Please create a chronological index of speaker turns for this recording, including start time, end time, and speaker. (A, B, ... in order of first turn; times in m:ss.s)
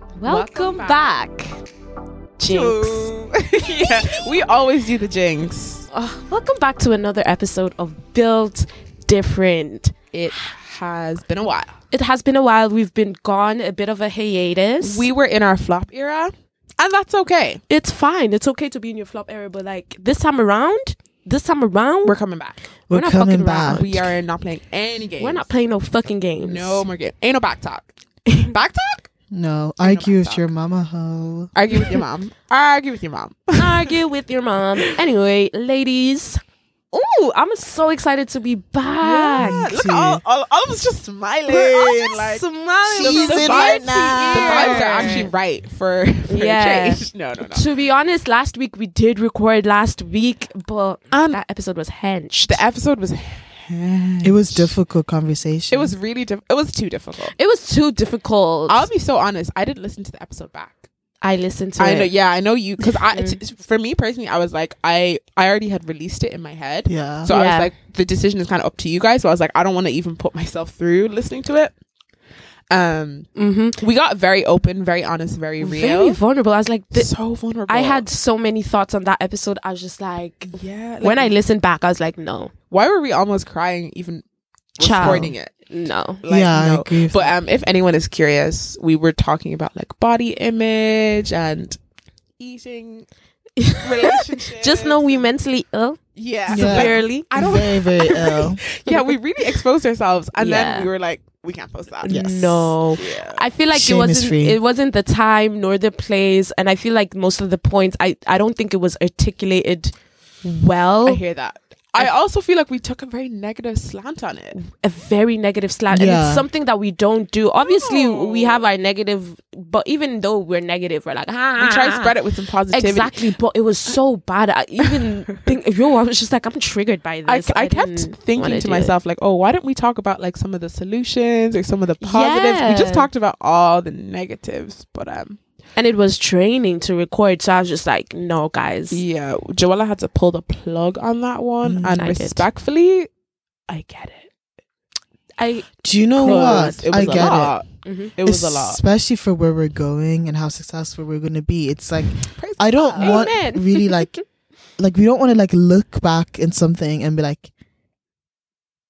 0:00.2-0:01.6 A
0:00.2-0:01.0 B
0:02.4-0:03.1 A
0:02.5-0:05.8 B
0:03.6-0:04.2 A
0:05.9-0:09.9 A
0:10.1-0:11.7 B
0:11.9-0:15.1 A
0:14.8-0:17.6 B
0:17.7-0:22.2 A
0:22.0-0:22.6 B
0:22.9-0:24.0 C
0:22.9-0:24.1 A
0:23.7-0:25.5 B
0:25.2-0:26.8 A
0:26.4-0:29.1 B
0:28.3-0:28.5 A
0:29.3-0:31.5 C
0:29.8-0:30.5 B
0:31.6-0:34.0 B
0:33.6-0:36.4 A
0:36.9-0:39.7 A
0:39.0-0:42.5 B
0:39.4-0:40.2 C
0:41.5-0:45.3 A
0:42.9-0:45.3 C
0:43.0-0:47.7 B
0:46.3-0:52.6 A
0:51.1-0:51.4 B
0:52.4-0:54.7 B
0:54.2-0:55.9 C
0:55.7-0:57.4 B
0:57.3-0:58.9 A
0:58.7-1:00.8 B
1:01.2-1:02.1 A
1:01.8-1:11.7 B
1:02.8-1:03.4 A
1:06.9-1:07.3 C
1:07.3-1:07.7 A
1:12.7-1:16.2 B
1:13.4-1:13.8 A
1:15.6-1:17.1 A
1:16.9-1:18.0 B
1:17.7-1:22.5 A
1:20.5-1:21.4 B
1:22.7-1:24.2 B
1:24.8-1:25.5 B
1:24.8-1:26.2 A
1:25.0-1:25.3 C
1:26.2-1:31.8 B
1:26.3-1:27.3 C
1:32.4-1:33.1 B
1:33.6-1:37.3 A
1:33.8-1:35.2 B
1:36.2-1:42.2 B
1:36.5-1:38.6 C
1:40.4-1:40.9 A
1:42.0-1:49.9 A
1:42.1-1:42.7 C
1:42.9-1:43.4 B
1:43.7-1:44.6 C
1:50.4-1:51.2 A
1:51.0-1:54.6 B
1:54.5-2:02.1 A
1:55.9-1:56.5 C
1:57.6-1:58.6 B
2:01.6-2:03.2 B
2:02.7-2:08.9 A
2:04.8-2:05.5 B
2:07.3-2:15.4 B
2:12.0-2:13.1 A
2:15.8-2:19.0 A
2:18.9-2:23.1 B
2:21.6-2:21.9 C
2:21.8-2:22.4 A
2:23.7-2:24.3 B
2:25.4-2:28.1 A
2:25.8-2:27.6 C
2:26.2-2:28.8 B
2:28.2-2:34.2 C
2:32.4-2:33.3 B
2:33.0-2:34.2 A
2:34.8-2:37.5 C